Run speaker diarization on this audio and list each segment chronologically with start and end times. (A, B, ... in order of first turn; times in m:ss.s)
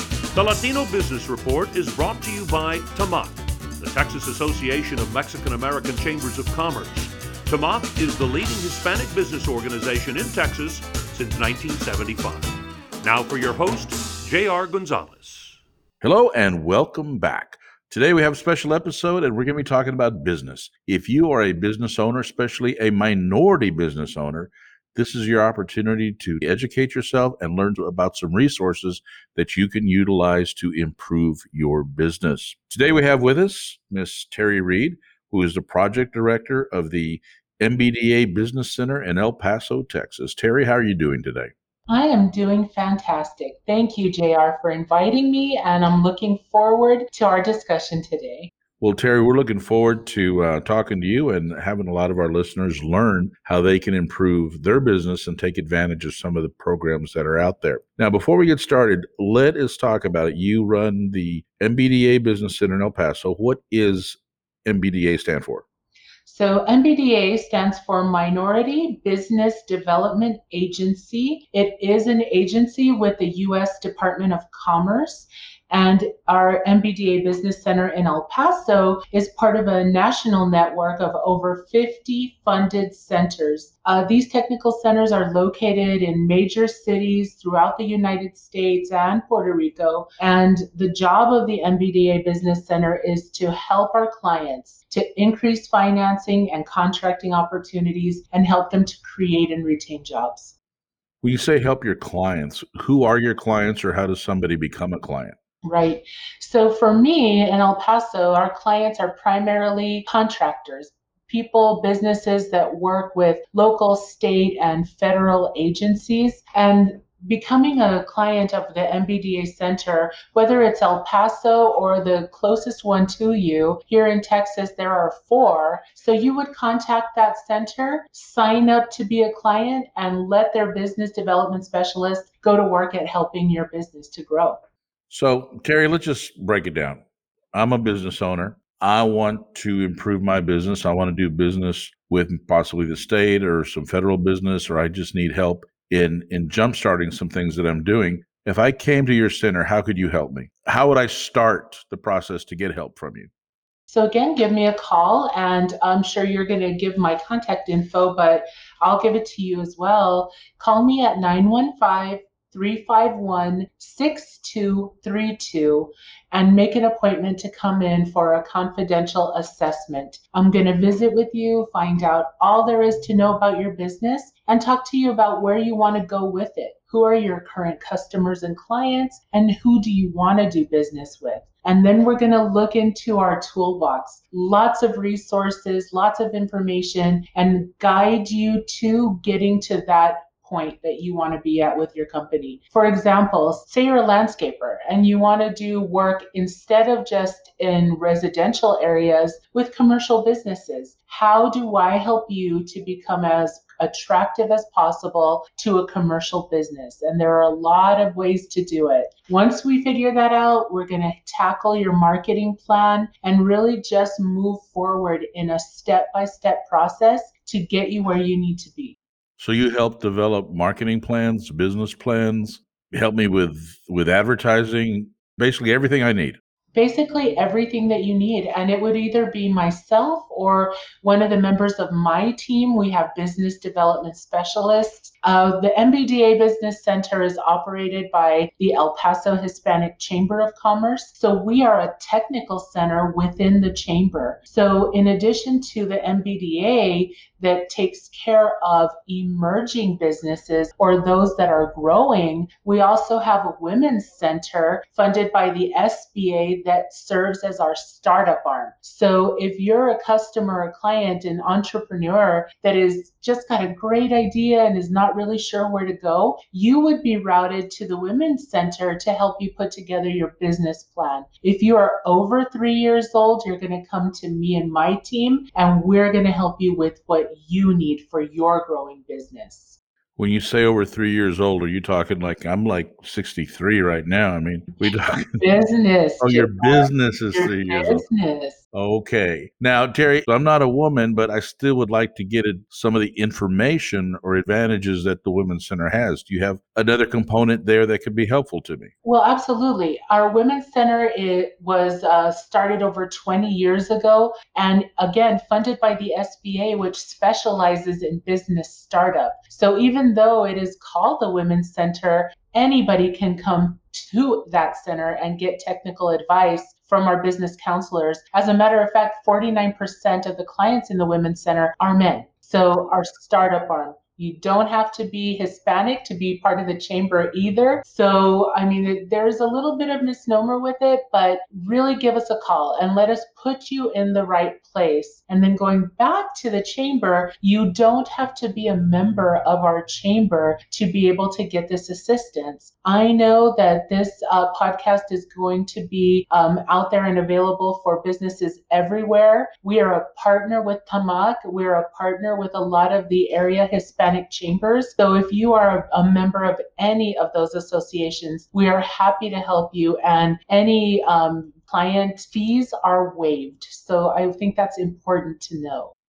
0:00.3-0:15.6 A
0:16.0-0:41.5 B
0:41.9-0:48.5 C
0:48.8-1:05.6 B
1:06.2-1:40.5 C
1:41.2-1:45.4 B
1:45.6-2:14.6 C
2:15.1-2:17.0 B
2:17.5-2:33.3 B
2:33.9-3:39.0 C
3:39.4-3:46.4 B
3:46.7-4:39.8 C
4:40.2-4:45.4 B
4:45.4-4:48.6 C
4:46.2-4:48.0 B
4:48.7-4:58.9 B
4:59.0-6:05.9 C